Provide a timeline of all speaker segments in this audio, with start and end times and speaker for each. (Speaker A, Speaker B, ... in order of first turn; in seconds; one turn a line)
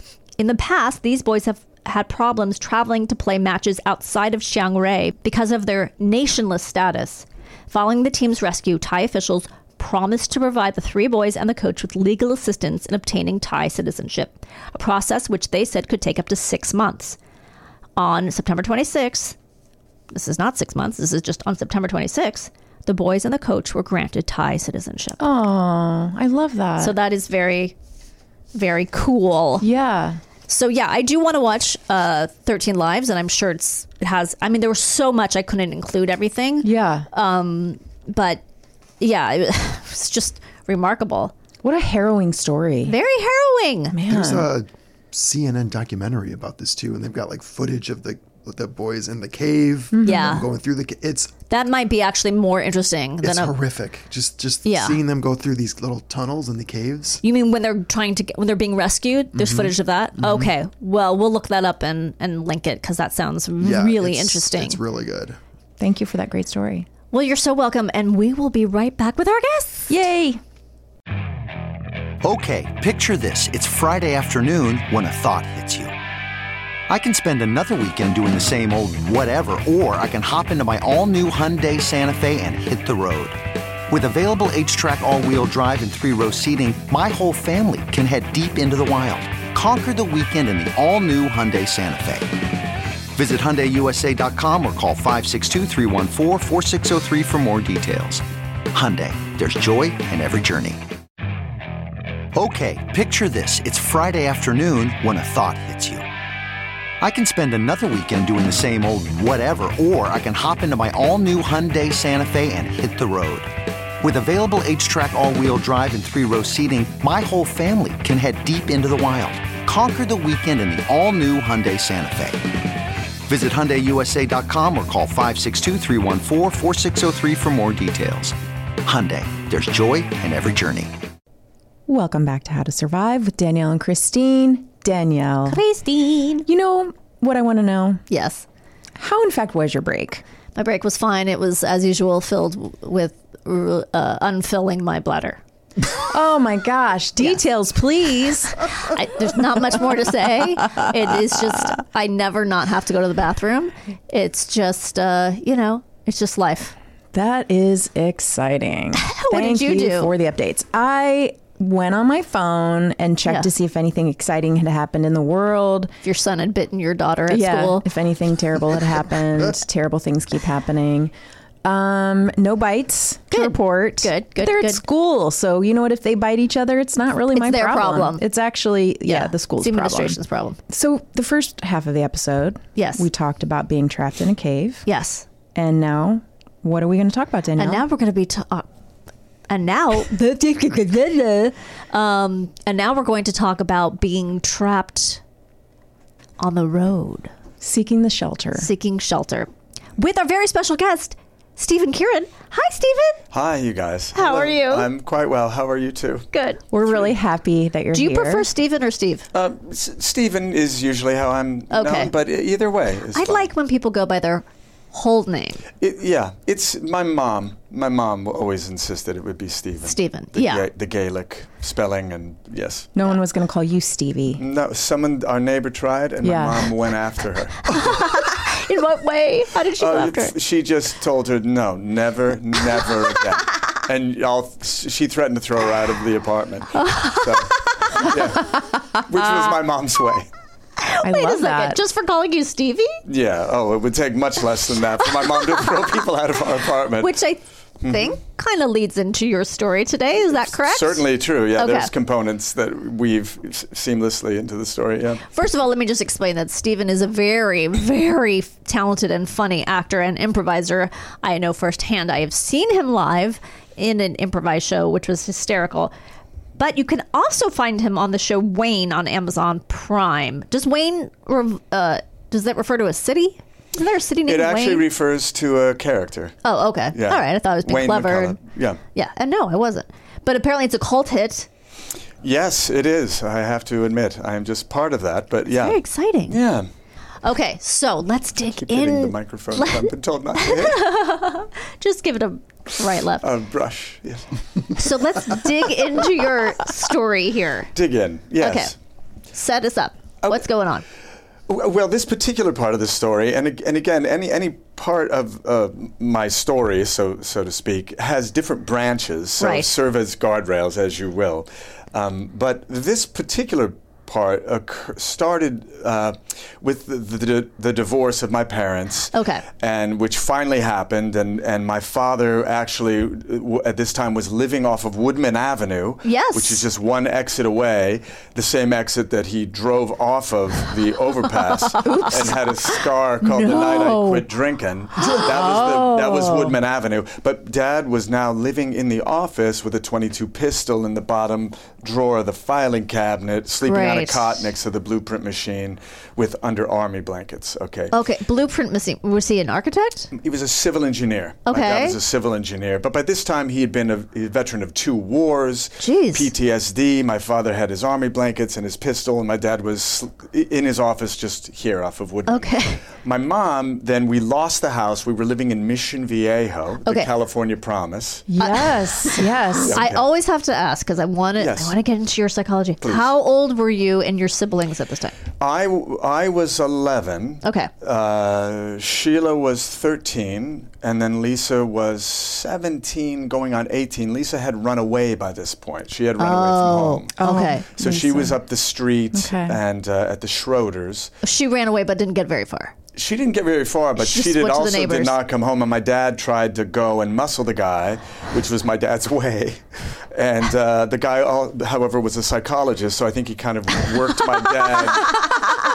Speaker A: 0.4-17.2
Speaker A: 18.0-19.3
Speaker A: 20.1-25.2
Speaker B: 25.2-26.9
Speaker A: 26.8-27.7
Speaker A: 28.5-29.7
Speaker B: 29.6-30.2
Speaker A: 30.5-38.4
Speaker B: 36.6-37.1
Speaker A: 39.0-41.3
Speaker B: 41.6-43.0
Speaker A: 42.9-44.0
Speaker B: 43.9-44.5
Speaker C: 44.1-51.4
Speaker B: 49.9-50.4
Speaker A: 50.0-50.4
Speaker A: 51.5-53.5
Speaker C: 53.2-57.2
Speaker A: 54.6-55.0
Speaker A: 57.2-64.8
Speaker C: 59.3-60.5
Speaker C: 63.6-65.4
Speaker B: 65.8-66.9
Speaker A: 67.1-70.0
Speaker B: 69.9-70.4
Speaker D: 72.2-75.9
Speaker D: 76.9-92.4
Speaker D: 93.1-100.8
Speaker D: 102.3-106.0
Speaker D: 107.0-122.5
Speaker D: 123.2-130.9
Speaker B: 131.9-135.6
Speaker A: 135.4-136.4
Speaker B: 136.4-138.0
Speaker A: 138.1-138.4
Speaker B: 139.0-140.2
Speaker A: 140.5-145.4
Speaker B: 146.0-148.6
Speaker A: 148.7-156.7
Speaker B: 157.1-165.9
Speaker A: 158.9-160.1
Speaker A: 166.0-167.8
Speaker B: 167.3-171.1
Speaker B: 171.6-184.8
Speaker A: 173.3-174.8
Speaker A: 177.3-178.2
Speaker A: 179.0-180.6
Speaker A: 182.8-183.1
Speaker A: 184.8-185.2
Speaker B: 185.5-187.8
Speaker A: 187.6-188.7
Speaker A: 189.5-195.2
Speaker A: 196.4-197.3
Speaker B: 197.6-198.7
Speaker A: 198.6-203.2
Speaker E: 203.3-206.3
Speaker A: 204.1-204.9
Speaker A: 206.3-206.6
Speaker B: 206.7-208.5
Speaker A: 207.9-209.3
Speaker E: 209.3-213.5
Speaker A: 211.7-212.1
Speaker A: 213.1-215.6
Speaker E: 215.8-222.9
Speaker A: 219.8-220.7
Speaker B: 222.9-224.4
Speaker E: 224.3-228.1
Speaker B: 226.2-226.7
Speaker A: 227.7-230.3
Speaker E: 229.8-240.3
Speaker A: 236.7-237.5
Speaker A: 240.8-243.0
Speaker B: 241.0-241.8
Speaker E: 243.1-247.2
Speaker A: 247.0-251.9
Speaker E: 247.8-248.1
Speaker E: 250.5-255.2
Speaker A: 255.3-265.9
Speaker A: 266.6-274.9
Speaker E: 274.2-276.4
Speaker A: 276.4-278.4
Speaker E: 276.9-278.8
Speaker A: 278.9-281.5
Speaker E: 282.2-286.7
Speaker A: 285.5-286.4
Speaker A: 287.2-293.3
Speaker E: 288.5-290.9
Speaker E: 293.2-294.4
Speaker A: 294.7-297.7
Speaker E: 297.7-298.7
Speaker A: 298.4-298.7
Speaker A: 299.3-300.8
Speaker E: 301.5-347.9
Speaker A: 309.4-309.7
Speaker A: 319.1-319.4
Speaker A: 326.0-326.6
Speaker A: 331.7-332.4
Speaker A: 333.2-334.2
Speaker A: 335.0-335.3
Speaker B: 335.2-336.5
Speaker A: 343.6-344.4
Speaker A: 347.9-350.1
Speaker E: 350.1-368.3
Speaker A: 351.4-352.0
Speaker A: 355.8-356.3
Speaker A: 362.3-362.8
Speaker A: 366.8-367.1
Speaker B: 368.3-369.8
Speaker A: 368.4-375.2
Speaker E: 369.6-370.1
Speaker E: 371.4-371.8
Speaker E: 372.8-373.1
Speaker E: 375.4-391.1
Speaker A: 377.4-377.7
Speaker A: 386.2-387.7
Speaker B: 387.1-388.4
Speaker B: 389.1-389.6
Speaker A: 391.2-392.7
Speaker E: 392.9-405.4
Speaker A: 394.0-395.2